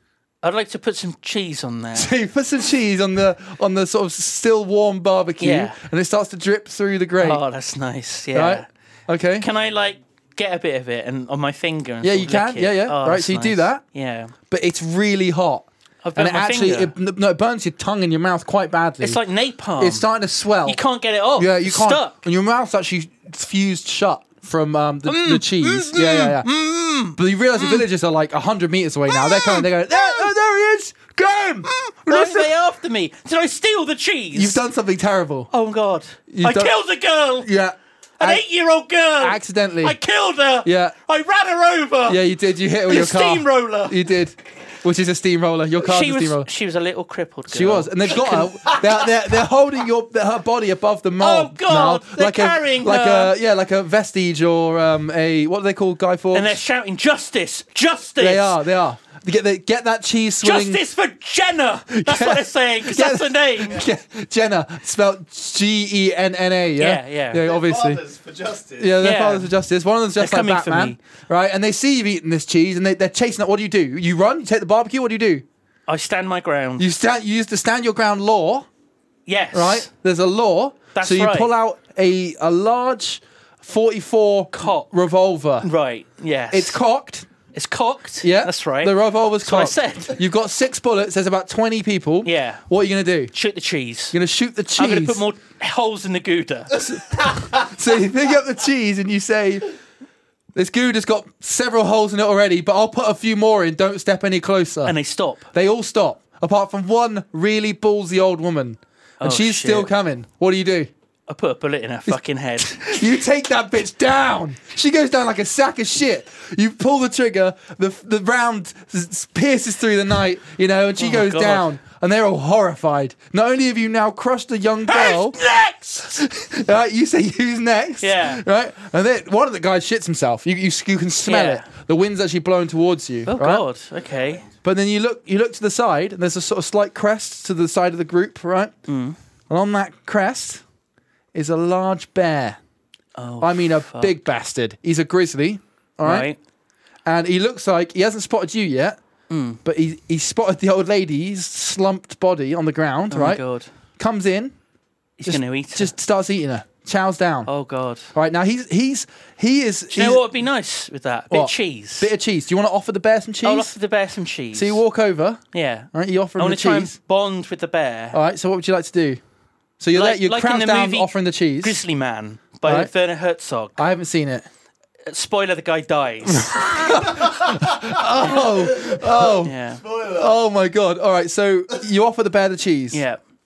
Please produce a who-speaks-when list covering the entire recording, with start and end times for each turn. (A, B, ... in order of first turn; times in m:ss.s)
0:00.4-0:02.1 A
0:02.0-0:07.4 B
0:05.4-0:05.8 A
0:07.2-0:08.7 A
0:08.3-0:09.5 B
0:09.4-0:14.3 A
0:12.0-0:13.8 B
0:14.5-0:19.2 B
0:16.0-0:16.9 A
0:19.0-0:20.1 A
0:19.8-0:20.8 B
0:20.6-0:22.2 A
0:21.4-0:26.5 B
0:25.1-0:27.8 A
0:27.1-0:32.5 B
0:29.1-0:30.3 A
0:31.7-0:34.6 A
0:34.3-0:35.5 B
0:35.5-0:37.5 A
0:36.3-0:36.8 B
0:37.4-0:38.4 B
0:38.2-0:42.2 A
0:39.2-0:40.0 B
0:40.6-0:41.0 B
0:42.1-0:46.5 B
0:42.9-0:44.0 A
0:45.8-0:49.3 A
0:47.5-0:56.6 B
0:51.2-0:53.3 A
0:56.3-0:58.6 A
0:58.2-1:00.8 B
1:00.4-1:03.8 A
1:01.9-1:08.0 B
1:06.8-1:07.4 A
1:07.5-1:08.9 C
1:08.8-1:15.5 B
1:09.0-1:09.5 A
1:10.2-1:11.0 A
1:15.9-1:16.9 A
1:16.8-1:18.7 B
1:19.3-1:19.9 A
1:19.5-1:25.7 B
1:20.9-1:21.5 A
1:24.5-1:24.9 A
1:25.6-1:26.8 A
1:26.5-1:27.3 B
1:27.5-1:30.2 A
1:28.2-1:33.3 B
1:32.2-1:32.6 A
1:33.3-1:34.2 A
1:34.1-1:35.2 B
1:34.8-1:36.8 A
1:36.7-1:39.7 B
1:40.5-1:45.0 B
1:44.8-1:45.5 A
1:45.5-1:50.9 B
1:49.2-1:49.9 A
1:51.3-1:53.1 A
1:52.1-2:05.4 B
2:01.0-2:01.7 A
2:04.9-2:06.3 A
2:06.1-2:13.6 B
2:08.0-2:08.4 A
2:11.2-2:11.7 A
2:13.3-2:14.5 A
2:14.6-2:18.7 B
2:18.9-2:19.2 A
2:19.5-2:20.6 B
2:21.3-2:22.6 B
2:23.2-2:24.2 A
2:23.4-2:26.3 B
2:26.0-2:26.4 A
2:27.0-2:29.0 B
2:29.3-2:29.6 A
2:29.6-2:33.4 B
2:33.1-2:33.7 A
2:34.0-2:34.6 B
2:35.2-2:35.9 A
2:35.3-2:37.5 B
2:37.5-2:38.1 A
2:38.1-2:40.2 B
2:39.9-2:42.1 A
2:41.3-2:43.7 B
2:43.4-2:44.8 A
2:44.5-2:47.0 B
2:45.5-2:48.2 A
2:48.1-2:49.2 B
2:49.8-2:51.8 B
2:49.9-2:53.8 A
2:52.6-2:52.9 B
2:53.8-2:54.5 B
2:55.1-2:57.3 A
2:56.3-2:59.6 B
2:58.7-3:00.4 C
2:59.4-2:59.8 A
3:00.1-3:03.0 B
3:02.9-3:03.2 A